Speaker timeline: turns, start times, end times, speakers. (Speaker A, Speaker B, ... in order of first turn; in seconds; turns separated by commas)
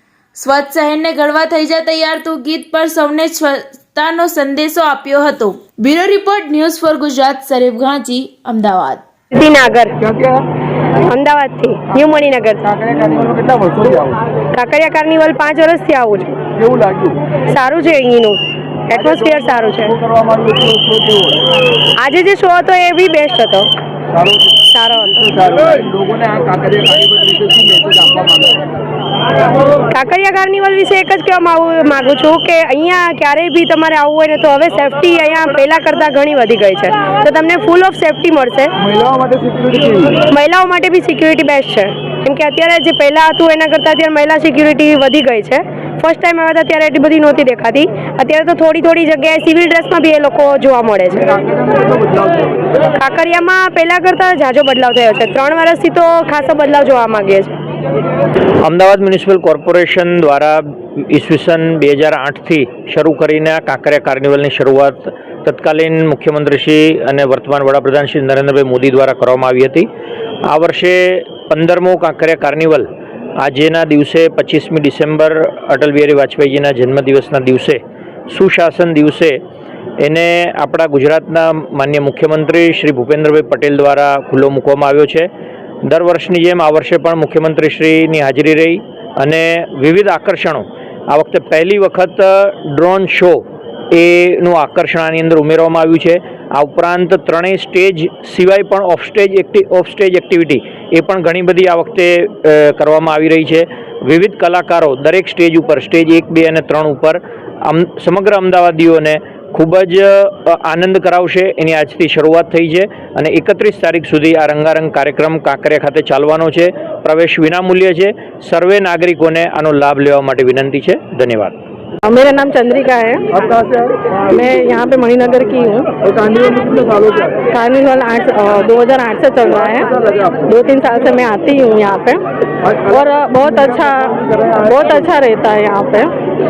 Speaker A: 0.3-9.0, Speaker B: 9.3-9.9, Speaker C: 10.1-10.4, Speaker B: 11.1-12.9, Speaker C: 12.9-14.1, Speaker B: 14.5-16.4, Speaker B: 17.5-19.9, Speaker C: 20.4-21.1, Speaker B: 22.0-23.7, Speaker B: 24.7-25.8, Speaker C: 25.4-28.6, Speaker B: 29.9-38.7, Speaker C: 38.9-40.1, Speaker B: 40.3-51.6, Speaker C: 52.1-52.5, Speaker B: 52.9-57.5, Speaker D: 58.6-69.9, Speaker D: 70.5-72.9, Speaker D: 73.4-79.4, Speaker D: 80.0-85.3, Speaker D: 85.9-121.5, Speaker E: 122.0-123.2, Speaker E: 124.3-125.9, Speaker C: 126.5-127.2, Speaker E: 127.4-132.2, Speaker E: 132.9-136.1